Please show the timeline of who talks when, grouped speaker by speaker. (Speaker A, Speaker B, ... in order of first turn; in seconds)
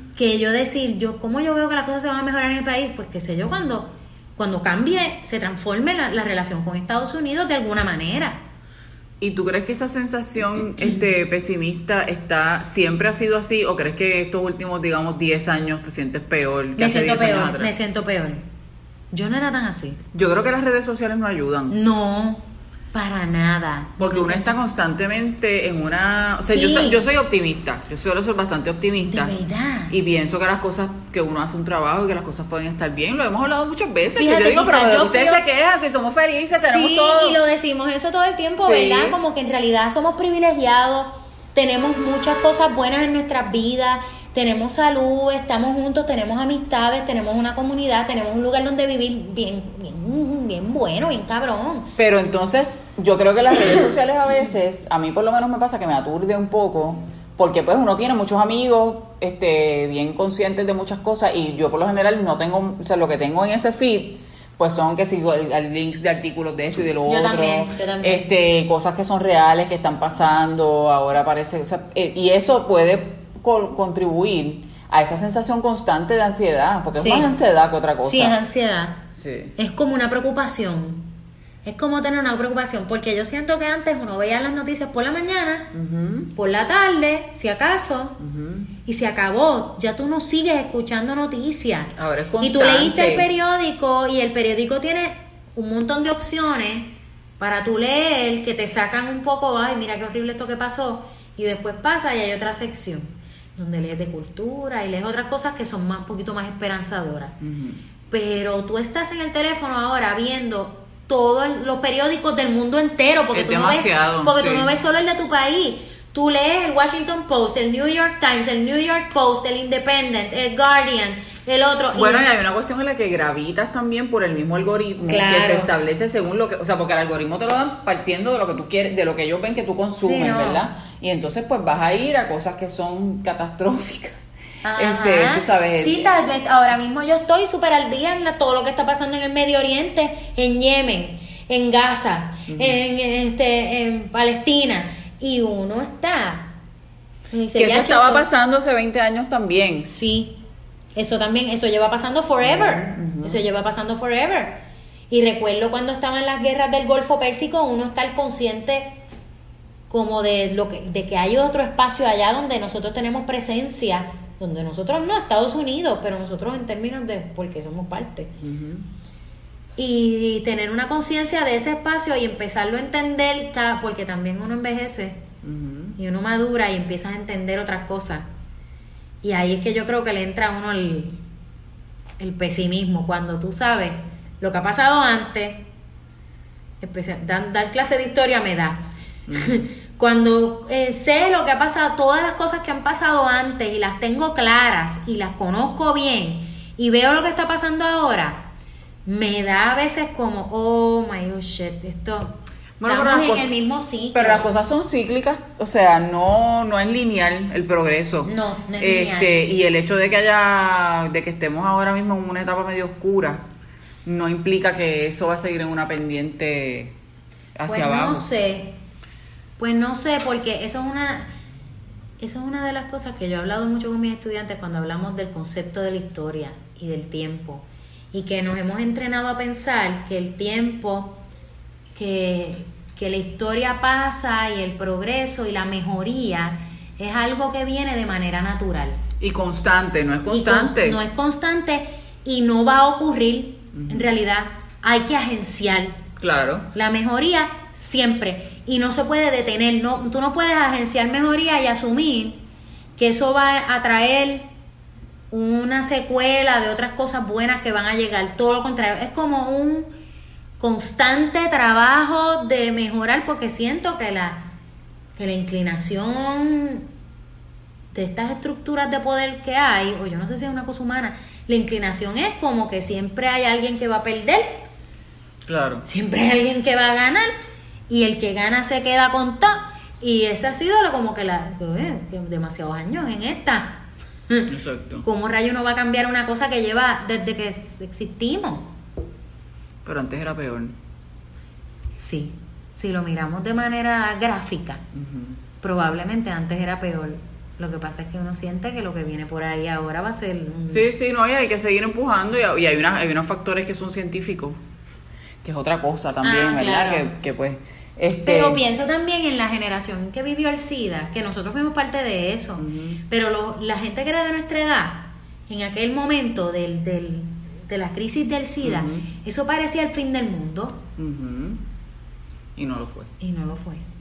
Speaker A: 0.2-8.4, 16.8-18.4, 19.1-20.0, 21.7-24.5, 26.5-27.1, 29.1-30.0, 34.1-35.4, 36.5-51.9, 67.1-68.3, 77.0-77.3, 78.0-81.1, 81.7-85.7, 86.3-88.2, 88.9-107.4, 108.1-122.3, 125.1-125.7, 130.0-130.7, 134.6-146.6, 147.3-148.3, 149.9-150.4, 150.9-159.0, 159.9-168.3, 169.8-175.2, 176.0-178.3, 179.2-181.2, 182.2-185.7, 186.8-198.5, 199.1-204.5, 208.3-209.4, 217.7-218.8, 219.6-221.3, 222.2-231.2, 231.9-239.0, 240.3-246.0, 246.7-252.4, 253.0-254.5, 255.3-259.9, 260.6-264.5, 265.2-266.9, 267.9-274.6, 275.9-277.3, 277.9-284.5, 285.0-288.7, 292.0-294.8, 295.6-300.9, 306.2-307.1, 308.2-320.8, 323.2-323.9
Speaker B: 9.2-17.7, 20.1-21.8, 24.0-29.4, 29.9-37.4, 38.6-39.2, 52.0-78.3, 79.1-79.5, 85.7-86.3, 88.2-88.7, 92.0-93.3, 107.4-107.8, 113.3-114.7, 121.9-134.2, 134.8-136.1, 142.5-142.8, 147.6-149.9, 152.4-153.4, 168.4-168.9, 175.4-176.0, 189.3-189.6, 202.8-203.5, 204.1-213.4, 214.0-216.9, 217.6-218.3, 239.2-241.0, 243.8-244.1, 246.2-246.7, 275.4-275.9, 284.5-285.1, 289.8-290.8, 294.9-295.4, 300.7-304.6, 305.4-308.6, 312.6-313.0, 318.6-319.1, 321.0-321.6, 322.6-323.1